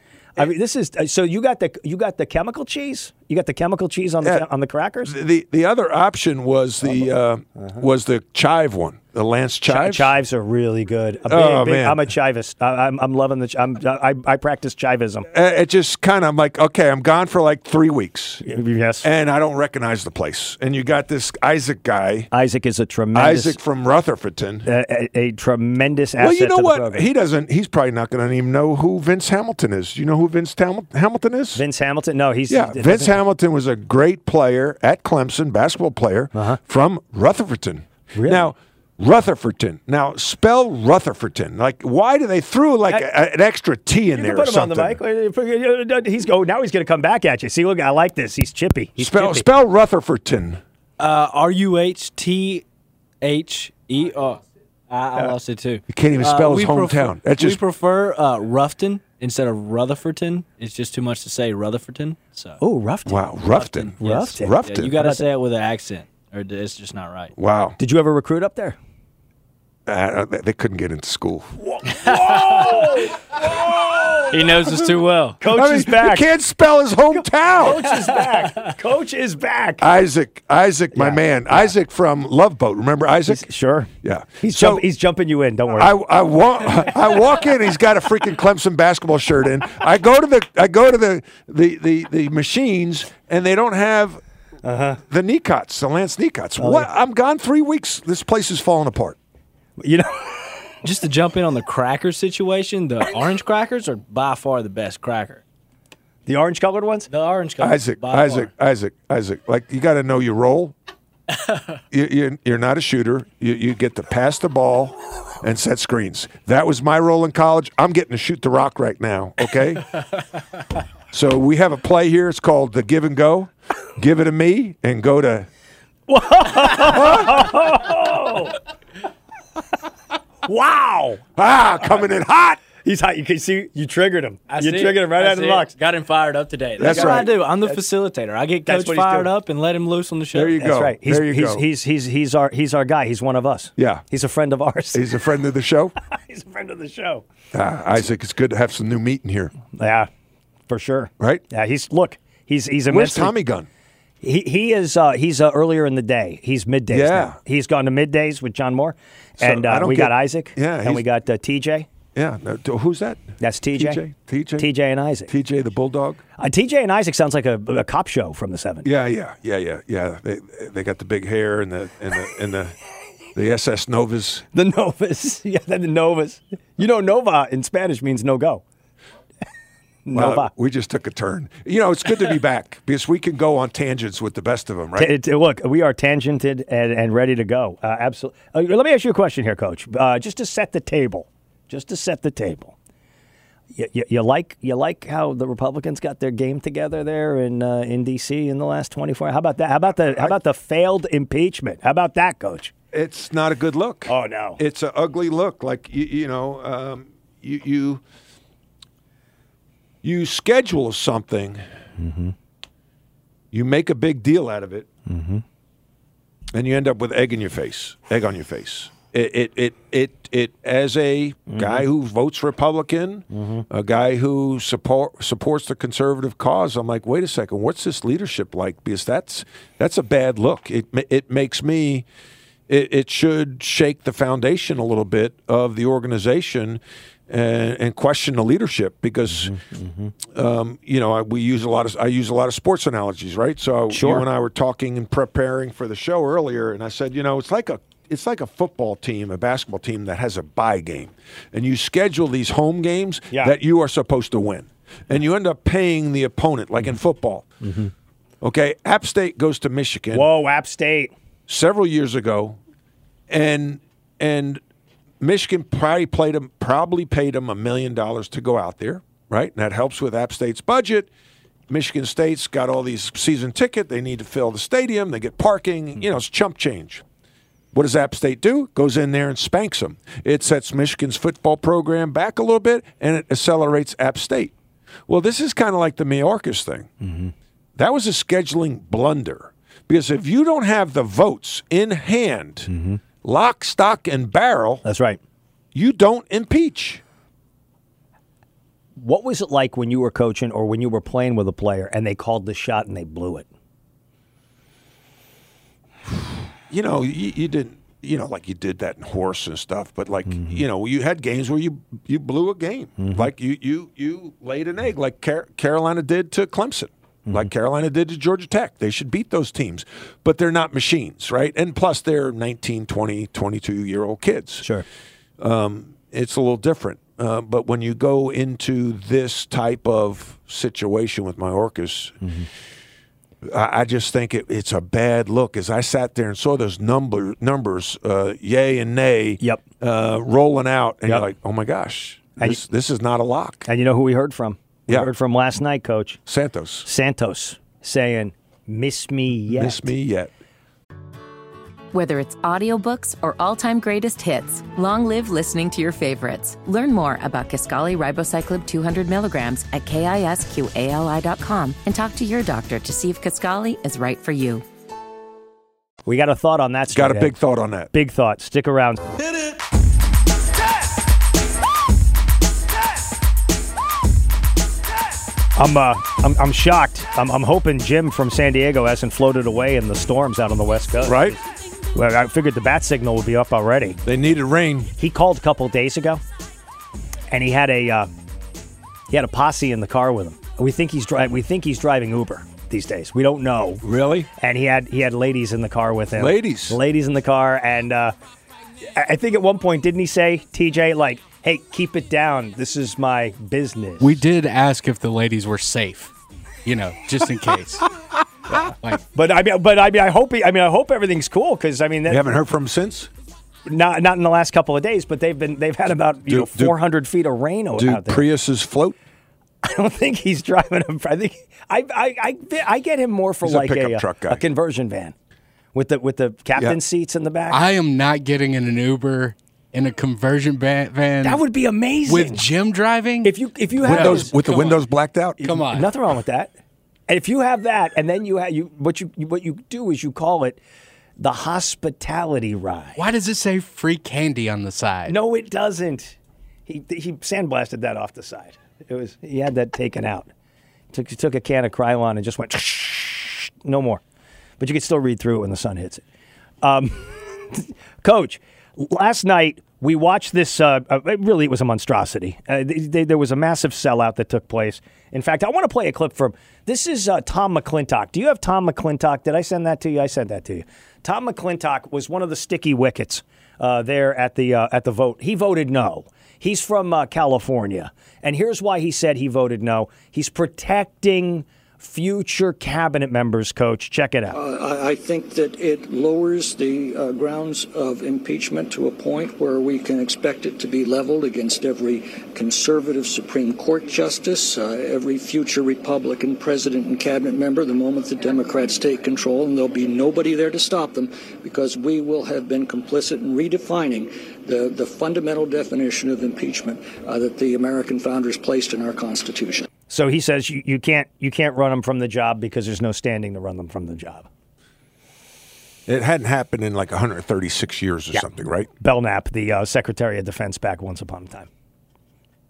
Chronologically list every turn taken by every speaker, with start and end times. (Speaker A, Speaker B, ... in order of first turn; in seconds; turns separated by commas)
Speaker A: 0.3-5.1, Speaker B: 5.0-10.1, Speaker A: 6.8-7.8, Speaker A: 9.7-15.3, Speaker B: 11.2-12.1, Speaker B: 15.3-18.4, Speaker A: 18.4-19.1, Speaker B: 19.0-22.3, Speaker A: 22.3-23.6, Speaker B: 23.1-24.7, Speaker A: 24.6-27.1, Speaker B: 26.2-31.6, Speaker A: 31.5-33.2, Speaker B: 32.5-45.0, Speaker A: 36.3-36.6, Speaker A: 38.1-38.5, Speaker A: 44.1-49.5, Speaker B: 49.0-50.6, Speaker C: 51.0-52.6, Speaker C: 53.2-62.6, Speaker B: 55.9-57.6, Speaker A: 62.6-63.3, Speaker B: 63.0-64.9, Speaker C: 63.5-67.3, Speaker A: 64.0-65.2, Speaker B: 67.3-67.8, Speaker A: 67.8-68.8, Speaker B: 69.8-71.5, Speaker A: 71.6-74.5, Speaker C: 72.3-72.8, Speaker C: 74.3-75.4, Speaker A: 75.4-76.2, Speaker B: 75.5-77.8, Speaker A: 77.5-79.9, Speaker B: 79.8-83.5, Speaker A: 80.9-81.7, Speaker A: 83.3-86.0, Speaker B: 84.0-84.9, Speaker B: 85.7-94.2, Speaker A: 94.6-95.0, Speaker B: 95.1-99.2, Speaker A: 96.6-96.9, Speaker A: 99.8-100.7, Speaker C: 100.8-105.4, Speaker A: 106.2-107.1, Speaker C: 107.1-108.5, Speaker B: 107.6-110.7, Speaker C: 111.3-111.7, Speaker B: 111.9-119.9, Speaker B: 121.1-125.5, Speaker A: 126.1-128.6, Speaker B: 126.9-127.4, Speaker A: 130.4-131.2, Speaker B: 131.3-132.6, Speaker A: 132.8-135.7, Speaker C: 134.5-140.6, Speaker B: 136.8-137.3, Speaker A: 136.8-137.8, Speaker A: 138.7-139.3, Speaker B: 140.3-141.7, Speaker A: 140.6-145.2, Speaker B: 143.8-144.0, Speaker B: 144.9-145.9, Speaker A: 146.0-147.2, Speaker B: 147.5-149.5, Speaker A: 149.7-150.1, Speaker A: 150.7-153.3, Speaker B: 152.9-153.7, Speaker A: 154.2-161.9, Speaker B: 156.9-157.4, Speaker B: 159.4-161.0, Speaker B: 162.1-164.7, Speaker A: 163.4-164.0, Speaker A: 164.6-165.3, Speaker B: 165.3-166.2, Speaker A: 166.4-168.9, Speaker B: 168.8-172.8, Speaker B: 173.3-174.4, Speaker A: 174.5-178.6, Speaker A: 180.1-180.5, Speaker B: 180.1-185.1, Speaker A: 184.9-192.7, Speaker A: 193.7-202.7, Speaker B: 202.9-208.0, Speaker A: 204.1-204.6, Speaker B: 210.0-211.6, Speaker A: 212.0-212.3, Speaker B: 213.5-214.9, Speaker A: 215.1-215.4, Speaker B: 216.5-232.0, Speaker A: 221.5-221.8, Speaker A: 223.3-223.6, Speaker B: 232.7-239.5, Speaker A: 239.4-240.1, Speaker B: 240.3-257.5, Speaker A: 243.9-244.2, Speaker A: 257.6-257.9, Speaker B: 258.4-260.3, Speaker A: 260.1-261.1, Speaker B: 261.5-262.6, Speaker B: 263.3-264.6, Speaker B: 265.2-271.1, Speaker B: 271.7-277.0, Speaker B: 277.7-284.5, Speaker B: 285.1-286.9, Speaker A: 287.0-287.3, Speaker B: 287.8-292.7, Speaker A: 292.7-293.0, Speaker B: 293.2-294.8, Speaker A: 294.8-295.2, Speaker B: 295.7-297.0, Speaker A: 299.0-303.4, Speaker B: 306.7-324.6, Speaker A: 310.3-310.6, Speaker A: 313.0-313.3, Speaker B: 325.4-332.3, Speaker B: 333.4-343.7, Speaker A: 343.6-346.2, Speaker B: 346.2-346.9, Speaker A: 346.8-349.9, Speaker B: 349.5-350.3, Speaker D: 351.9-364.6, Speaker A: 366.1-367.3, Speaker B: 366.9-367.9, Speaker A: 367.9-369.0, Speaker A: 375.6-381.4, Speaker B: 381.0-381.4, Speaker A: 381.9-384.0, Speaker B: 384.0-384.9, Speaker A: 385.0-386.2, Speaker A: 387.3-388.1, Speaker A: 389.1-393.8, Speaker B: 393.8-394.3, Speaker A: 394.4-398.1, Speaker B: 396.2-396.8, Speaker A: 398.9-404.2, Speaker E: 404.0-406.1, Speaker E: 406.6-407.9, Speaker A: 408.5-412.3, Speaker E: 408.6-409.0, Speaker B: 412.1-413.1, Speaker A: 413.6-418.2, Speaker B: 416.3-416.8, Speaker B: 417.7-418.9, Speaker A: 419.6-425.1, Speaker B: 423.4-424.4, Speaker A: 425.7-427.6, Speaker E: 427.5-431.4, Speaker A: 431.2-432.4, Speaker E: 432.1-434.8, Speaker A: 433.2-434.3, Speaker B: 433.8-435.4, Speaker A: 435.4-436.5, Speaker E: 435.4-435.9, Speaker A: 437.1-440.6, Speaker A: 441.2-443.0, Speaker E: 442.9-445.2, Speaker A: 445.1-446.1, Speaker A: 446.7-450.3, Speaker A: 450.9-454.0, Speaker A: 454.6-456.0, Speaker A: 456.6-484.4, Speaker F: 484.3-509.7, Speaker A: 509.9-514.3, Speaker B: 515.9-518.7, Speaker A: 518.1-521.5